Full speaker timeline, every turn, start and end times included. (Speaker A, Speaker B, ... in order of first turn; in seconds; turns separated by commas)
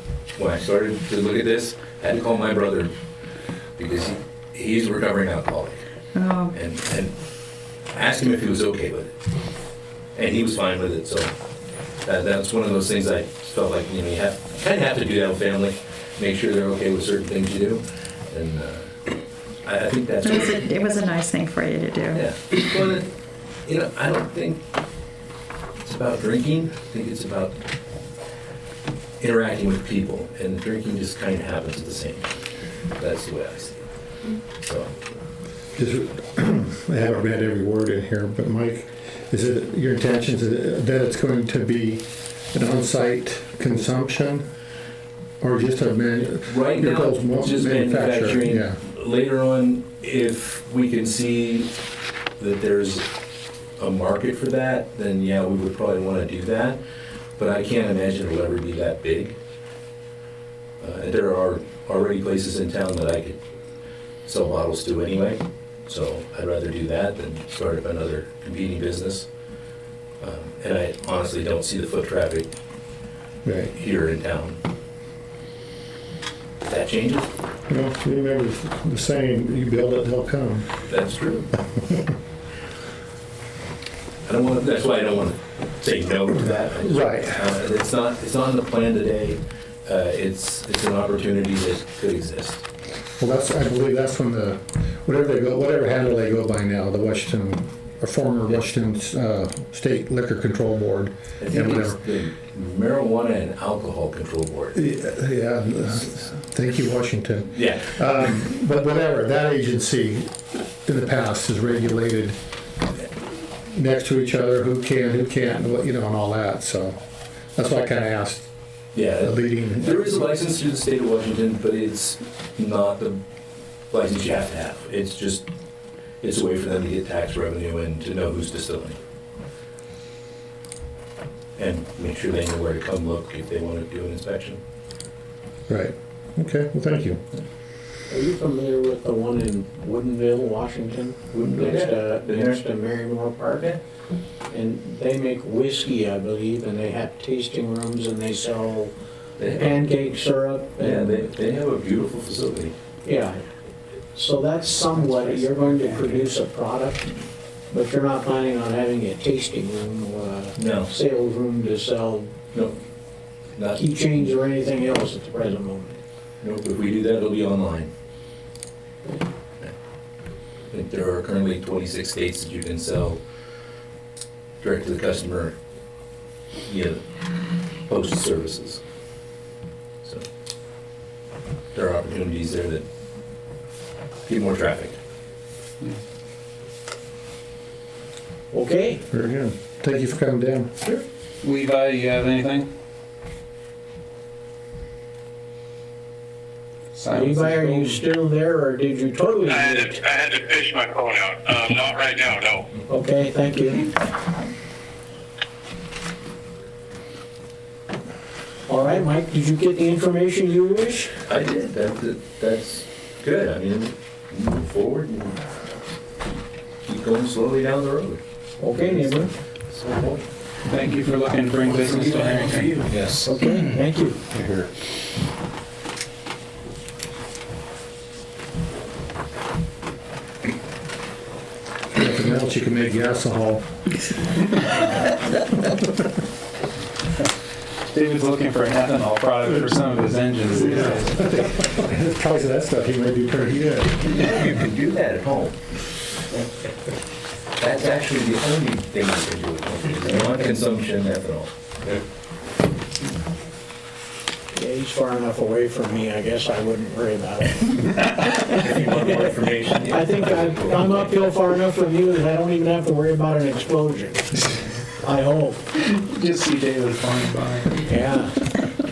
Speaker A: 0.3-2.9, Speaker A: 3.8-5.8, Speaker B: 6.1-6.6, Speaker A: 6.5-7.1, Speaker A: 7.9-9.1, Speaker A: 10.1-11.3, Speaker A: 12.0-19.0, Speaker A: 19.6-20.7, Speaker B: 20.2-22.2, Speaker A: 22.1-23.1, Speaker A: 23.6-24.6, Speaker A: 25.8-27.6, Speaker A: 29.2-32.3, Speaker A: 33.0-33.9, Speaker A: 34.6-34.9, Speaker C: 35.8-44.4, Speaker C: 45.4-48.8, Speaker A: 46.5-51.7, Speaker A: 52.4-53.0, Speaker A: 53.8-56.8, Speaker A: 57.4-59.4, Speaker A: 60.8-63.4, Speaker A: 64.2-69.3, Speaker A: 70.2-72.5, Speaker C: 73.4-73.7, Speaker A: 73.7-74.6, Speaker A: 76.7-77.3, Speaker C: 77.7-80.7, Speaker A: 80.9-81.5, Speaker A: 84.2-92.6, Speaker C: 86.3-87.5, Speaker C: 93.2-102.0, Speaker A: 101.4-104.8, Speaker C: 104.7-112.3, Speaker A: 107.5-107.9, Speaker C: 113.7-117.0, Speaker C: 117.5-118.5, Speaker A: 118.9-123.2, Speaker C: 119.1-120.1, Speaker A: 123.9-125.5, Speaker A: 126.2-129.0, Speaker A: 131.6-134.6, Speaker C: 135.7-137.2, Speaker D: 138.1-143.8, Speaker A: 141.3-142.6, Speaker D: 144.5-148.9, Speaker A: 149.4-149.8, Speaker D: 149.6-151.2, Speaker A: 150.8-152.7, Speaker D: 153.0-153.4, Speaker D: 154.1-157.1, Speaker E: 155.0-156.1, Speaker D: 157.7-162.3, Speaker A: 160.6-160.9, Speaker D: 163.8-166.0, Speaker A: 166.4-167.9, Speaker A: 170.7-173.2, Speaker A: 174.6-175.5, Speaker A: 176.7-177.0, Speaker A: 177.9-178.8, Speaker A: 181.7-182.8, Speaker A: 184.2-185.0, Speaker D: 188.5-189.0, Speaker C: 189.1-190.7, Speaker E: 191.4-192.7, Speaker E: 196.9-198.0, Speaker D: 197.1-200.0, Speaker F: 200.1-202.6, Speaker D: 202.9-203.9, Speaker D: 208.7-211.1, Speaker A: 211.3-215.4, Speaker A: 216.8-218.2, Speaker D: 218.6-219.3, Speaker A: 218.8-220.2, Speaker E: 220.7-222.9, Speaker A: 221.9-223.2, Speaker D: 223.2-224.2, Speaker E: 224.3-224.7, Speaker C: 231.9-233.7, Speaker E: 237.9-241.1, Speaker C: 240.5-244.2, Speaker A: 244.0-245.6, Speaker A: 247.6-251.9, Speaker D: 254.5-257.8, Speaker A: 258.4-261.2, Speaker D: 259.9-264.3, Speaker D: 265.0-265.6, Speaker E: 265.7-267.9, Speaker D: 267.9-268.4